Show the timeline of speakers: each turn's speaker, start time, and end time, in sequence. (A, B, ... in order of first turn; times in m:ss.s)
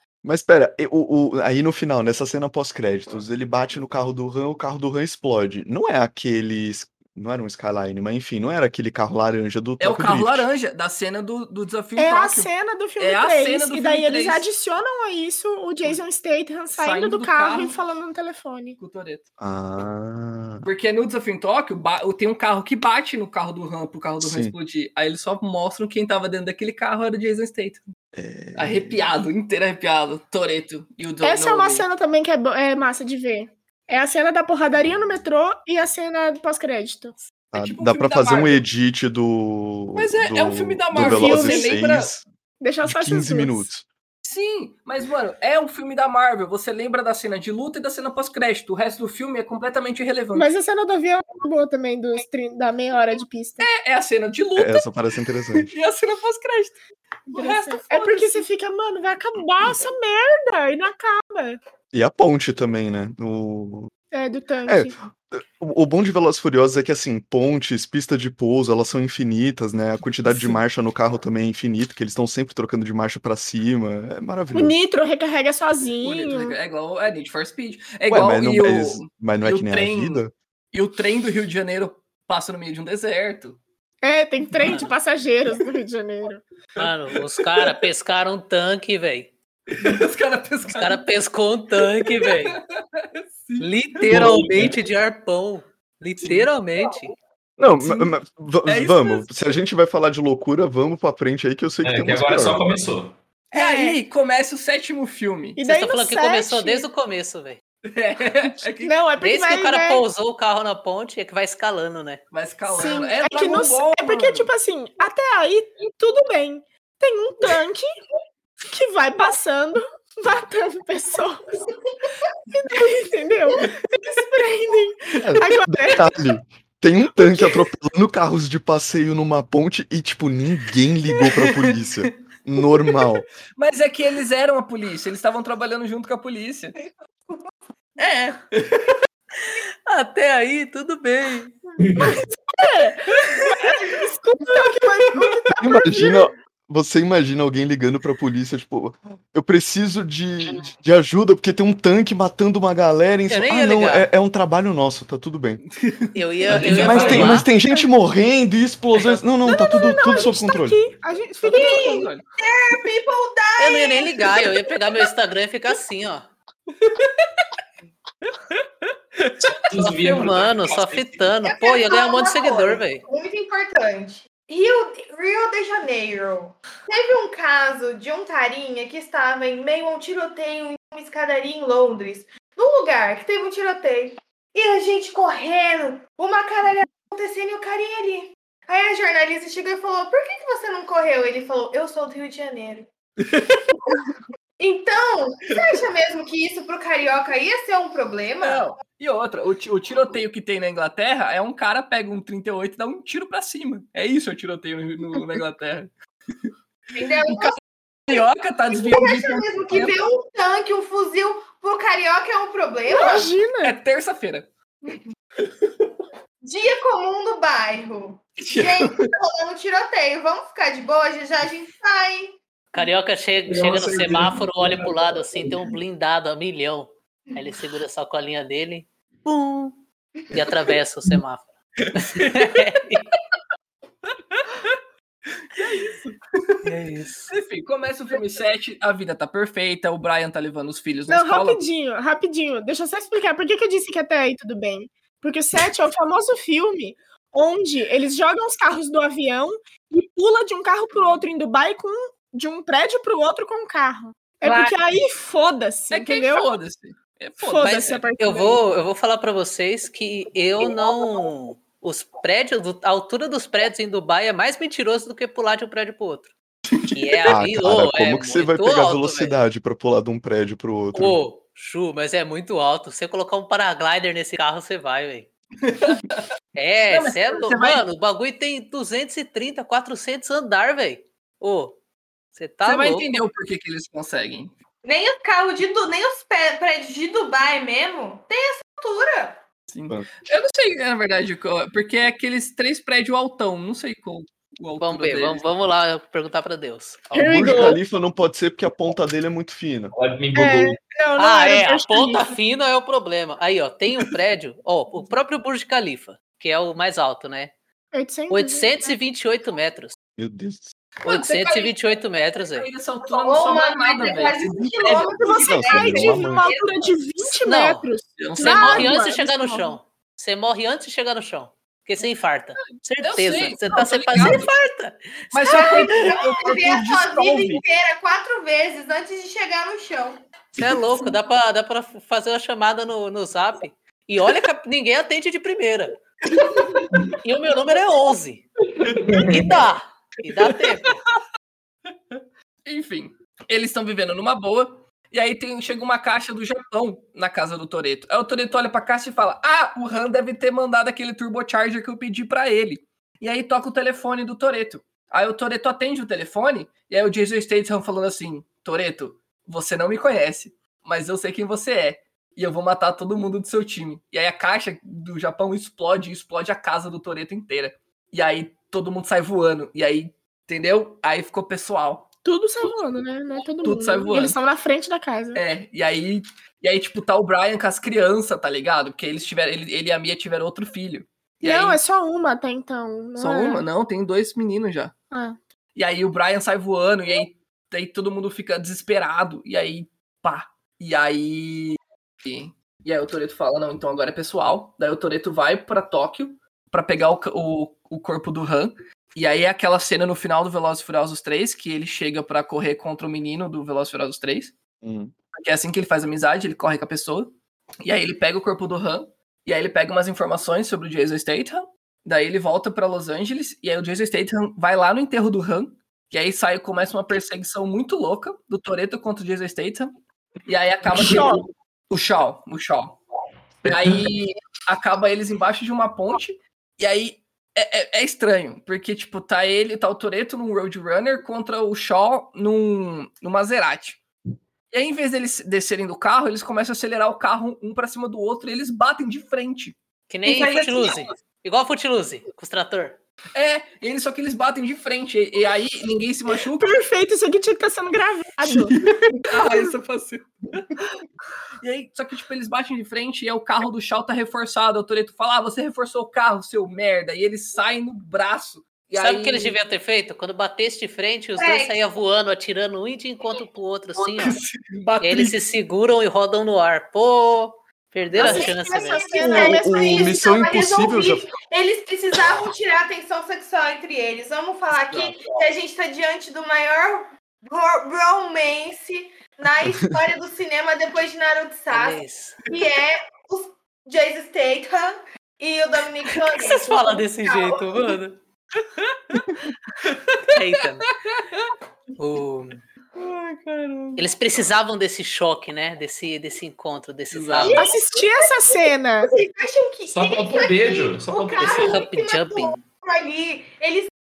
0:00.2-0:10.5 A
0:09.8-0:14.4 B
0:12.0-0:18.8 C
0:16.7-0:17.8 B
0:18.8-0:19.2 B
0:19.4-0:20.7 A
0:20.6-0:27.8 B
0:24.2-0:24.5 A
0:28.1-0:29.1 A
0:28.6-0:31.9 B
0:31.2-0:37.1 C
0:37.5-0:38.6 B
0:37.5-0:42.2 A
0:40.0-0:42.1 B
0:40.9-0:41.8 C
0:42.6-0:43.6 C
0:42.8-0:43.8 A
0:44.2-0:50.5 B
0:50.3-0:53.7 C
0:53.6-0:55.0 B
0:54.6-0:55.7 A
0:55.5-0:58.4 B
0:57.3-1:01.6 C
1:01.9-1:03.9 A
1:04.1-1:04.9 C
1:04.6-1:14.8 A
1:14.5-1:16.6 C
1:16.0-1:23.6 B
1:18.1-1:20.3 A
1:24.0-1:26.4 C
1:24.6-1:24.9 D
1:26.8-1:29.3 D
1:26.8-1:27.7 B
1:29.7-1:31.0 B
1:30.7-1:32.6 D
1:31.8-1:34.3 B
1:33.6-1:37.1 D
1:34.0-1:34.8 E
1:36.2-1:36.5 B
1:37.6-1:42.9 A
1:37.8-1:38.1 B
1:38.6-1:39.4 B
1:41.8-1:43.1 E
1:43.5-1:44.0 C
1:43.5-1:45.6 B
1:45.6-1:46.8 C
1:45.6-1:47.6 D
1:47.8-1:48.9 B
1:48.8-1:50.0 C
1:49.2-1:52.2 D
1:52.3-1:54.5 B
1:52.7-1:57.9 C
1:58.7-2:01.4 C
2:02.5-2:06.1 C
2:05.2-2:13.2 A
2:07.2-2:07.5 B
2:11.2-2:12.1 B
2:12.8-2:16.7 B
2:18.0-2:18.9 B
2:19.8-2:21.5 D
2:21.8-2:22.2 E
2:22.0-2:26.3 C
2:23.1-2:23.5 B
2:24.5-2:25.3 B
2:25.6-2:35.6 A
2:33.3-2:34.1 D
2:35.7-2:37.3 B
2:36.1-2:37.5 D
2:36.5-2:37.4 E
2:36.5-2:40.8 A
2:39.4-2:42.1 C
2:41.4-2:42.2 B
2:41.5-2:44.6 F
2:43.6-2:46.3 D
2:49.7-2:51.3 E
2:49.7-2:53.0 D
2:51.4-3:12.9 F
3:13.3-3:13.6 B
3:14.6-3:18.7 F
3:18.4-3:25.9 B
3:26.9-3:27.6 F
3:27.3-3:27.6 B
3:28.1-3:30.0 B
3:28.7-3:33.3 F
3:32.9-3:33.8 C
3:33.6-3:34.5 B
3:36.4-3:42.4 F
3:38.4-3:39.1 B
3:42.7-3:49.8 D
3:43.5-3:44.3 B
3:43.7-3:44.9 E
3:50.3-3:53.0 D
3:51.9-3:52.6 B
3:54.1-3:54.8 B
3:55.6-3:56.0 B
3:56.6-3:57.3 D
3:57.3-4:01.6 B
4:01.1-4:16.5 C
4:14.4-4:14.8 F
4:15.9-4:18.0 B
4:17.4-4:18.6 C
4:17.6-4:26.3 D
4:26.7-4:27.3 B
4:26.9-4:29.4 D
4:27.2-4:31.2 A
4:30.9-4:35.3 D
4:35.6-4:36.2 B
4:36.5-4:41.8 D
4:36.9-4:37.8 B
4:42.3-4:43.1 D
4:42.6-4:44.5 B
4:44.8-4:49.4 F
4:49.7-4:55.4 B
4:54.8-4:57.1 D
4:57.1-4:59.9 A
4:57.1-4:57.8 C
4:57.3-4:57.6 B
4:59.9-5:00.8 E
5:00.3-5:02.4 C
5:01.2-5:07.5 D
5:07.9-5:08.7 C
5:08.3-5:09.9 D
5:10.2-5:10.7 A
5:11.0-5:11.8 B
5:11.0-5:12.7 D
5:12.5-5:15.1 B
5:13.1-5:16.9 F
5:14.9-5:19.7 C
5:15.4-5:16.5 A
5:17.4-5:25.8 D
5:18.2-5:19.6 B
5:23.0-5:24.5 B
5:25.3-5:27.6 B
5:25.4-5:30.2 F
5:30.6-5:35.9 D
5:36.5-5:36.8 F
5:37.2-5:38.4 D
5:38.8-5:39.6 E
5:39.1-5:41.0 D
5:42.6-6:12.1 B
6:12.2-6:15.4 C
6:13.6-6:14.4 B
6:15.3-6:21.8 B
6:21.4-6:23.6 C
6:23.2-6:24.9 B
6:25.1-6:25.4 C
6:25.7-6:44.5 B
6:44.8-6:45.1 A
6:45.3-6:59.9 B
7:00.4-7:03.0 B
7:00.9-7:01.4 C
7:03.6-7:04.0 E
7:03.6-7:14.0 B
7:14.7-7:19.8 B
7:20.1-7:23.0 D
7:20.2-7:21.1 F
7:23.3-7:26.8 B
7:26.5-7:28.7 C
7:28.4-7:30.7 B
7:31.6-7:39.6 B
7:39.0-7:44.4 D
7:41.4-7:41.8 F
7:44.0-7:45.4 B
7:45.0-7:49.1 D
7:48.2-7:50.3 C
7:48.2-8:07.9 F
7:49.2-7:51.3 A
7:54.7-7:55.4 B
7:59.7-8:00.0 A
8:01.7-8:02.4 D
8:06.3-8:08.2 D
8:08.8-8:09.2 B
8:09.8-8:10.3 B
8:10.3-8:10.9 D
8:10.9-8:11.5 B
8:12.0-8:12.6 D
8:13.0-8:14.0 B
8:14.0-8:17.6 D
8:17.1-8:17.7 B
8:17.4-8:18.4 F
8:17.5-8:19.1 C
8:19.0-8:23.9 F
8:19.9-8:21.8 E
8:21.4-8:22.6 D